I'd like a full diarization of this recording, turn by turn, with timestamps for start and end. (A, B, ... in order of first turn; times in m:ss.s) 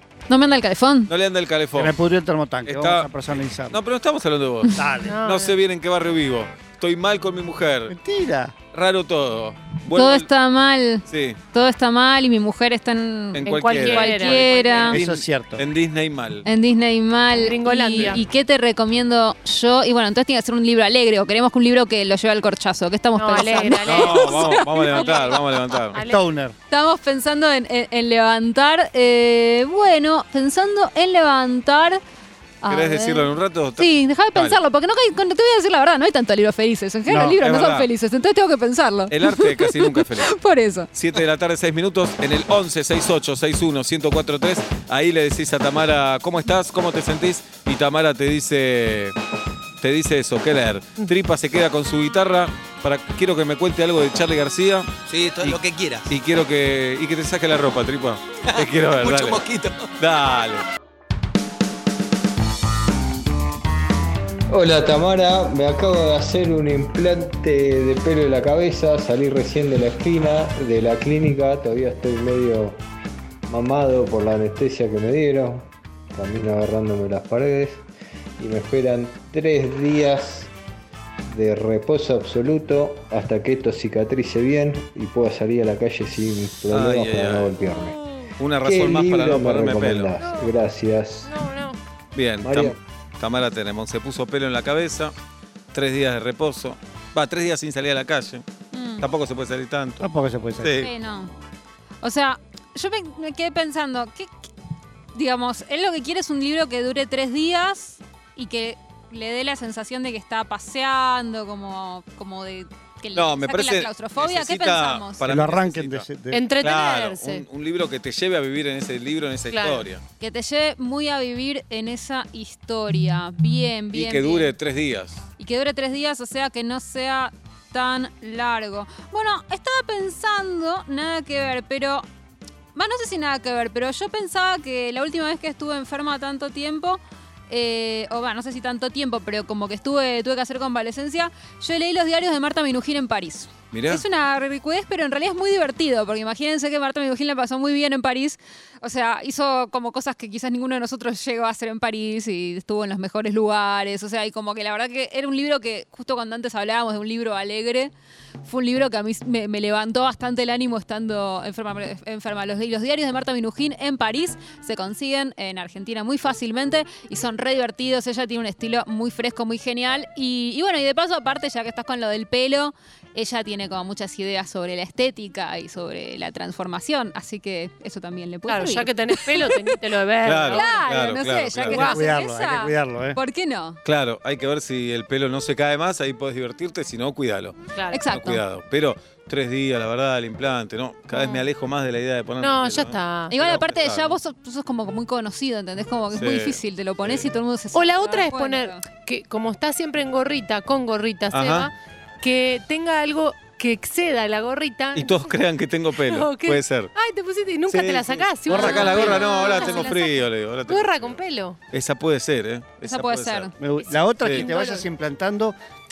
0:00.3-0:01.1 A
0:01.1-0:01.9 B
0:01.7-0:03.8 C
0:02.6-0:03.1 B
0:03.7-0:07.9 B
0:04.8-0:05.2 C
0:05.0-0:05.6 D
0:07.9-0:08.5 C
0:08.7-0:10.3 B
0:09.9-0:15.0 A
0:11.1-0:11.4 B
0:13.4-0:16.5 B
0:13.4-0:15.0 D
0:14.9-0:15.6 C
0:16.4-0:25.4 A
0:17.3-0:18.2 D
0:23.2-0:26.2 D
0:23.7-0:26.0 B
0:26.0-0:26.5 C
0:26.7-0:32.0 A
0:32.6-0:40.9 A
0:32.7-0:34.6 B
0:37.1-0:37.4 C
0:37.4-0:37.9 B
0:39.1-0:40.3 B
0:40.9-0:49.1 B
0:49.8-0:59.4 B
0:55.1-0:56.1 E
0:58.5-0:59.9 E
1:00.0-1:00.6 B
1:04.5-1:12.8 F
1:13.5-1:17.8 F
1:18.4-1:20.5 F
1:21.3-1:28.0 F
1:26.7-1:27.6 B
1:27.8-1:28.3 D
1:28.4-1:30.1 B
1:28.6-1:31.3 F
1:30.2-1:30.5 D
1:31.2-1:31.8 D
1:32.1-1:35.1 B
1:32.4-1:32.8 F
1:35.7-1:38.4 B
1:38.7-1:39.0 A
1:39.0-1:40.1 B
1:40.0-1:40.9 C
1:40.6-1:40.9 B
1:40.8-1:41.3 A
1:42.0-1:44.3 A
1:45.1-1:55.2 A
1:53.1-1:56.1 B
1:55.2-1:56.4 C
1:56.3-1:57.4 D
1:56.6-2:00.0 B
1:59.5-1:59.8 D
2:00.2-2:04.5 A
2:03.9-2:05.2 B
2:05.4-2:12.0 A
2:12.7-2:37.9 A
2:23.7-2:24.0 B
2:38.4-2:59.8 A
2:58.4-3:00.7 D
3:00.2-3:01.9 B
3:00.5-3:03.8 A
3:01.7-3:03.2 C
3:03.8-3:14.1 B
3:07.7-3:08.0 D
3:07.9-3:08.4 A
3:11.1-3:11.4 A
3:12.4-3:13.4 D
3:13.3-3:18.8 A
3:16.1-3:17.3 B
3:17.7-3:25.3 D
3:21.3-3:21.7 B
3:24.9-3:26.9 B
3:26.0-3:31.6 D
3:27.7-3:31.2 B
3:28.5-3:29.0 C
3:28.6-3:29.9 A
3:31.7-3:33.5 B
3:32.8-3:33.5 A
3:33.6-3:35.5 C
3:33.9-3:34.8 D
3:34.2-3:34.5 B